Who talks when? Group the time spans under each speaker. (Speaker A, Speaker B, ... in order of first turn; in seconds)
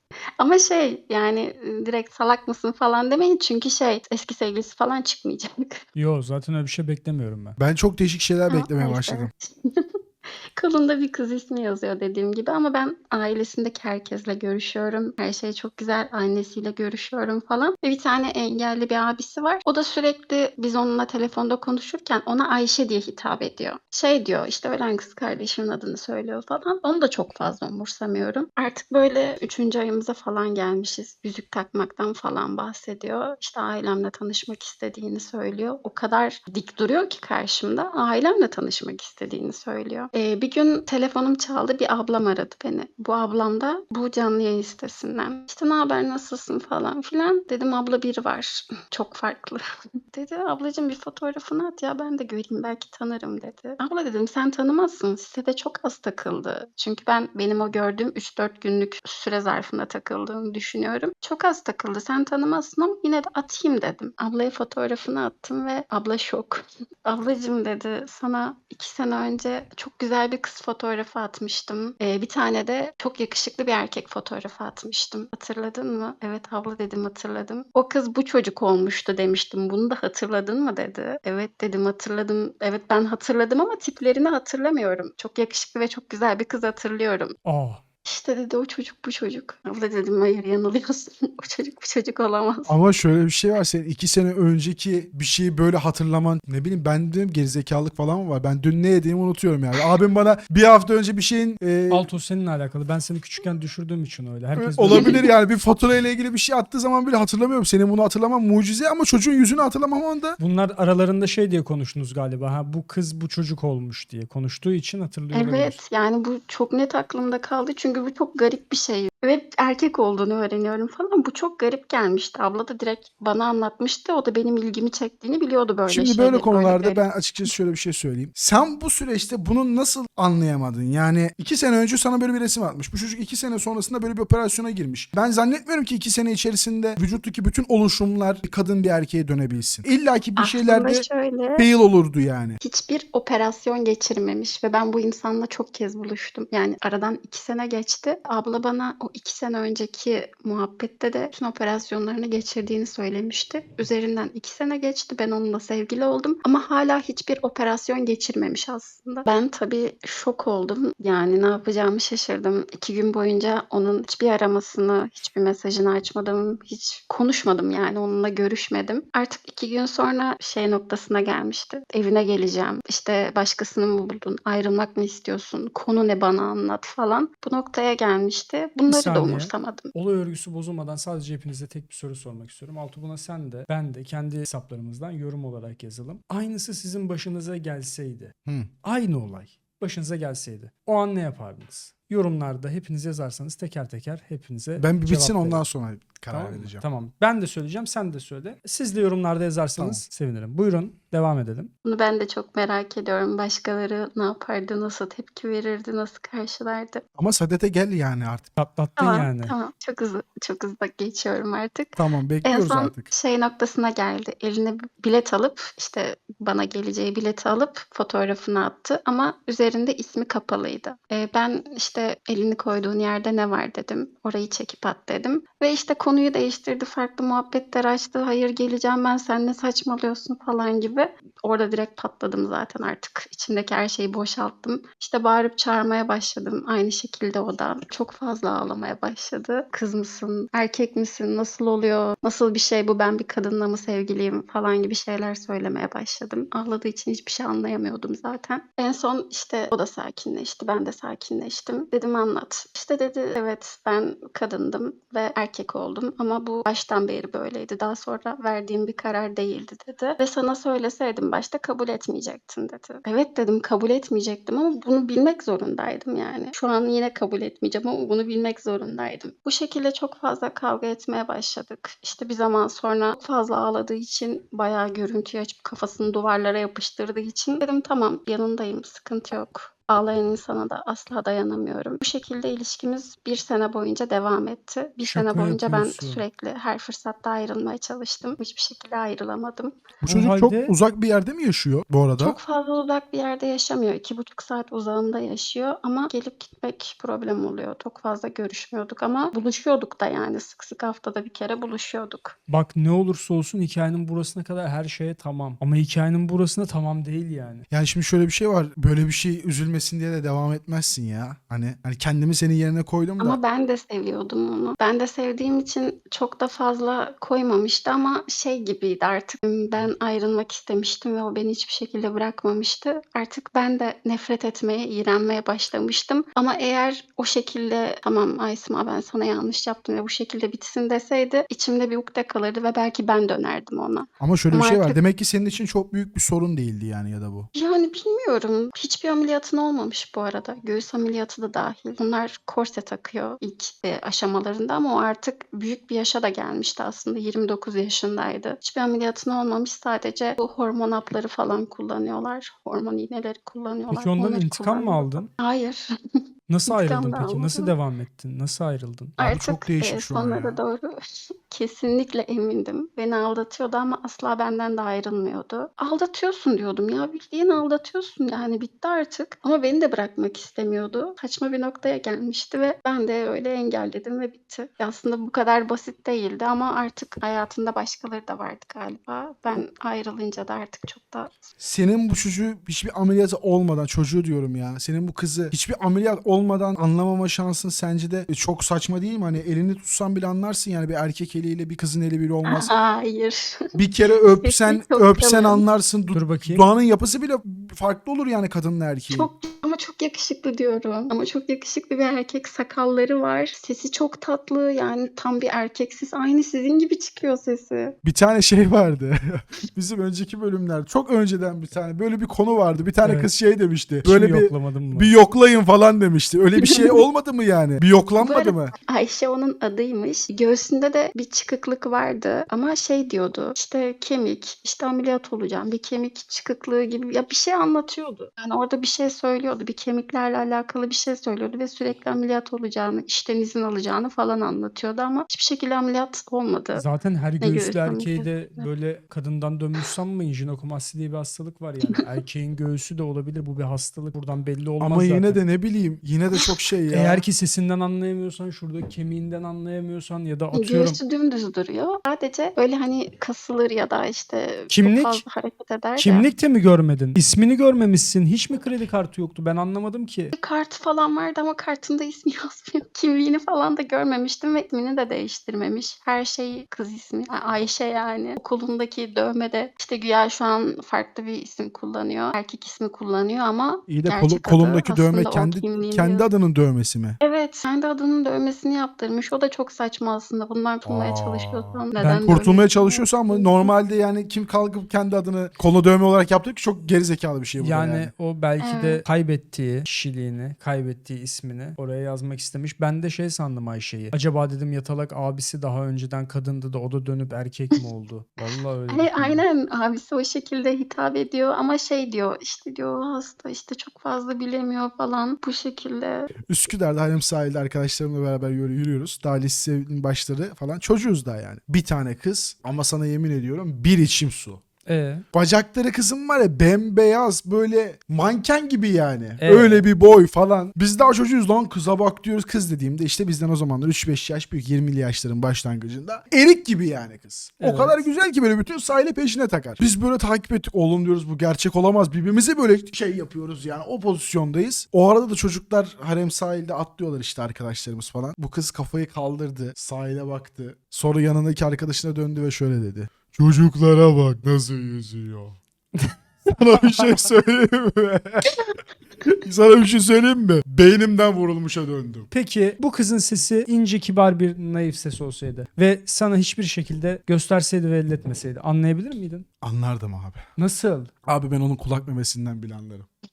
Speaker A: 0.4-5.8, 8.5-87.4, 88.0-92.7, 104.9-105.3, 115.3-127.0, 140.4-141.7, 142.6-179.9, 201.8-207.0, 209.0-289.8, 292.2-302.4, 313.2-335.0, 337.5-355.9, 356.7-357.7, 359.2-361.0, 361.5-381.4, 392.5-393.7, 394.3-395.6, 399.1-407.9, 416.6-417.0, 418.2-436.9, 437.4-438.7, 450.5-456.3, 460.4-476.3, 477.2-483.7, 488.6-489.0, 498.9-506.3
Speaker B: 6.0-7.6, 87.5-87.8, 101.9-105.2, 110.4-115.8, 178.9-195.7, 196.3-201.7, 208.6-209.5, 285.0-286.2, 290.0-290.7, 302.5-307.6, 353.9-355.3, 356.5-359.2, 396.1-396.6, 413.0-413.3, 414.0-415.1, 436.8-445.4, 446.9-451.0, 454.7-455.2, 456.0-460.4, 482.0-482.4, 487.6-499.4, 514.9-515.2, 519.4-519.9, 527.6-528.1, 546.0-547.2, 552.3-559.5, 560.6-561.1
Speaker C: 7.6-9.3, 92.7-102.1, 104.5-110.4, 125.9-142.6, 194.8-196.8, 199.8-200.0, 207.2-208.5, 212.0-213.1, 290.0-292.4, 307.7-313.4, 334.2-337.5, 359.2-360.6, 381.6-392.7, 393.7-399.3, 408.0-418.7, 444.8-447.2, 473.9-477.2, 480.9-488.1, 506.5-514.6, 515.3-545.6, 546.5-548.6, 549.2-552.3, 559.6-560.4, 561.3-563.1